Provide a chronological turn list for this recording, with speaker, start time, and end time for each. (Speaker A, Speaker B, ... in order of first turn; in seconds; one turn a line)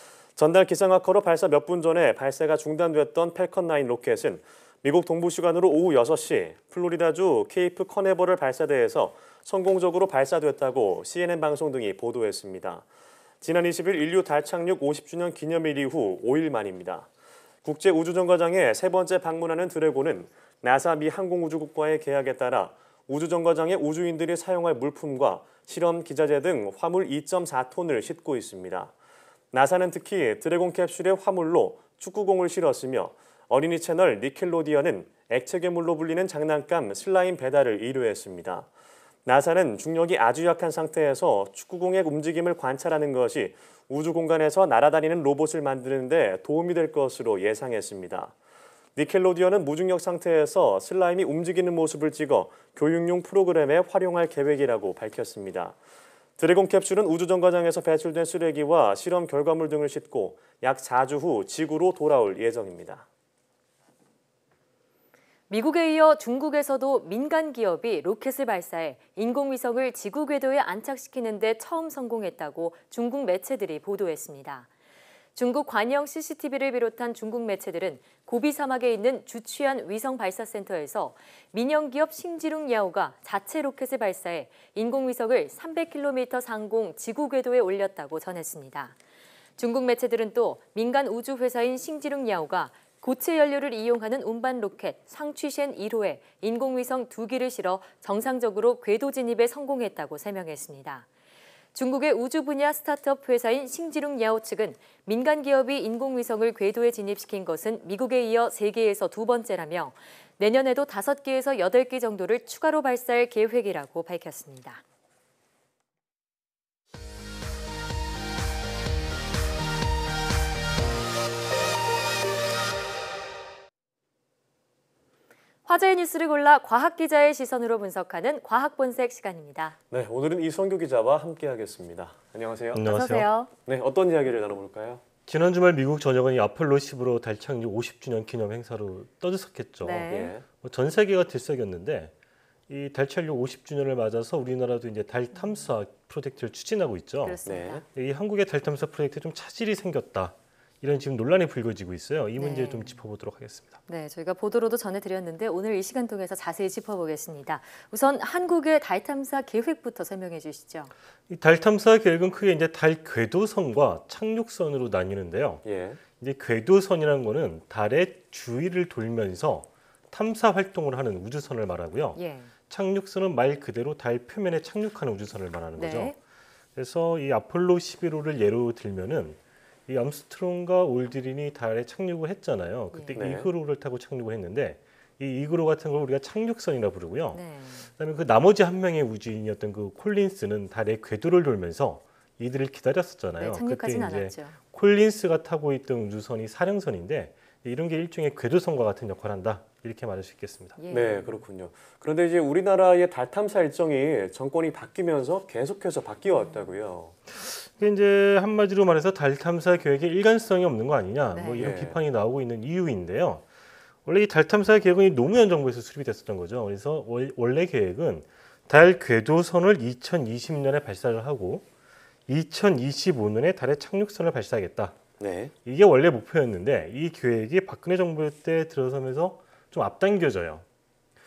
Speaker A: 0.3-12.8
Speaker A: 13.4-17.1
Speaker A: 17.6-28.9
Speaker A: 29.5-38.7
Speaker A: 39.2-48.3
Speaker A: 49.0-55.8
Speaker A: 56.4-63.0
Speaker B: 65.5-74.7
Speaker B: 75.3-88.9
Speaker B: 89.6-101.0
Speaker B: 101.7-114.8
Speaker B: 125.7-129.8
Speaker A: 129.9-132.9
Speaker C: 132.7-133.3
Speaker B: 132.8-133.5
Speaker A: 133.7-135.0
Speaker C: 135.3-142.1
Speaker B: 139.8-140.3
Speaker A: 140.1-140.4
Speaker C: 142.7-147.4
Speaker B: 145.3-145.7
Speaker B: 147.2-147.8
Speaker A: 147.4-147.8
Speaker C: 147.9-153.8
Speaker B: 152.4-152.9
Speaker B: 153.9-160.9
Speaker C: 161.3-165.6
Speaker A: 165.6-166.0
Speaker C: 166.2-176.2
Speaker B: 172.2-172.5
Speaker B: 175.8-176.2
Speaker C: 176.7-200.8
Speaker B: 182.9-183.2
Speaker A: 183.1-183.5
Speaker B: 187.3-187.9
Speaker B: 193.4-194.6
Speaker B: 200.8-201.3
Speaker A: 200.9-207.1
Speaker C: 207.3-213.4
Speaker B: 211.3-211.7
Speaker A: 211.6-212.0
Speaker C: 214.0-221.7
Speaker C: 222.3-225.0
Speaker A: 225.2-225.5
Speaker C: 225.6-230.6